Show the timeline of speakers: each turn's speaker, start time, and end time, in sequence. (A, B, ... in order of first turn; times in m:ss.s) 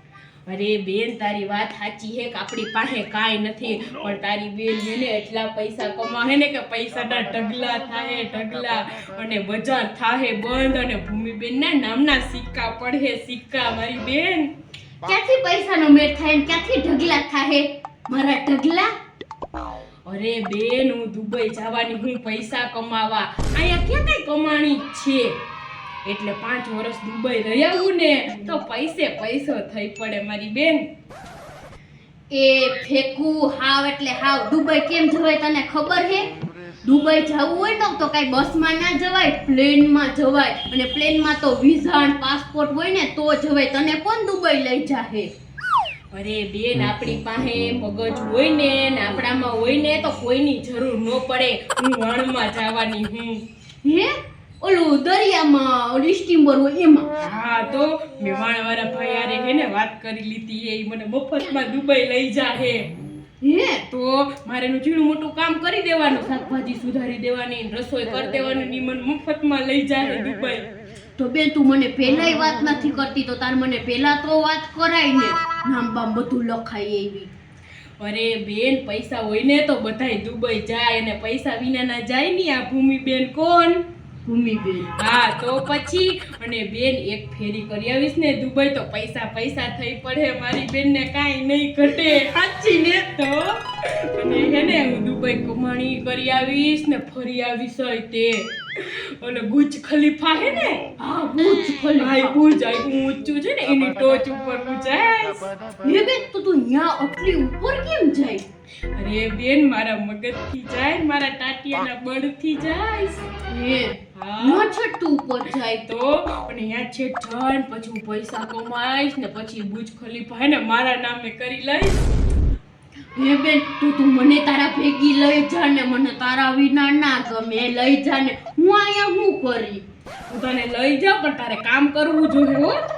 0:00.5-0:14.5 A
0:15.0-0:18.9 B
0:20.1-0:25.3 A
0:26.0-0:30.8 A
0:32.3-0:36.2 B
0:36.8-0:45.3 B
0:46.1-0:53.4 A
0:53.8-0:54.1 B
0:54.6-0:57.1 B
0:57.2-1:02.8 A
1:03.4-1:03.8 B
1:03.9-1:10.6 A
1:11.2-1:17.3 B
1:18.0-1:23.8 A
1:24.2-1:24.9 B
1:25.0-1:33.6 A
1:34.1-1:40.8 A
1:41.0-1:42.3 B
1:42.0-1:45.5 A
1:45.8-1:48.4 B
1:49.0-1:53.3 A
1:53.5-1:55.8 B
1:54.1-1:54.6 A
1:55.8-2:02.0 A
2:03.2-2:09.8 B
2:10.3-2:12.8 A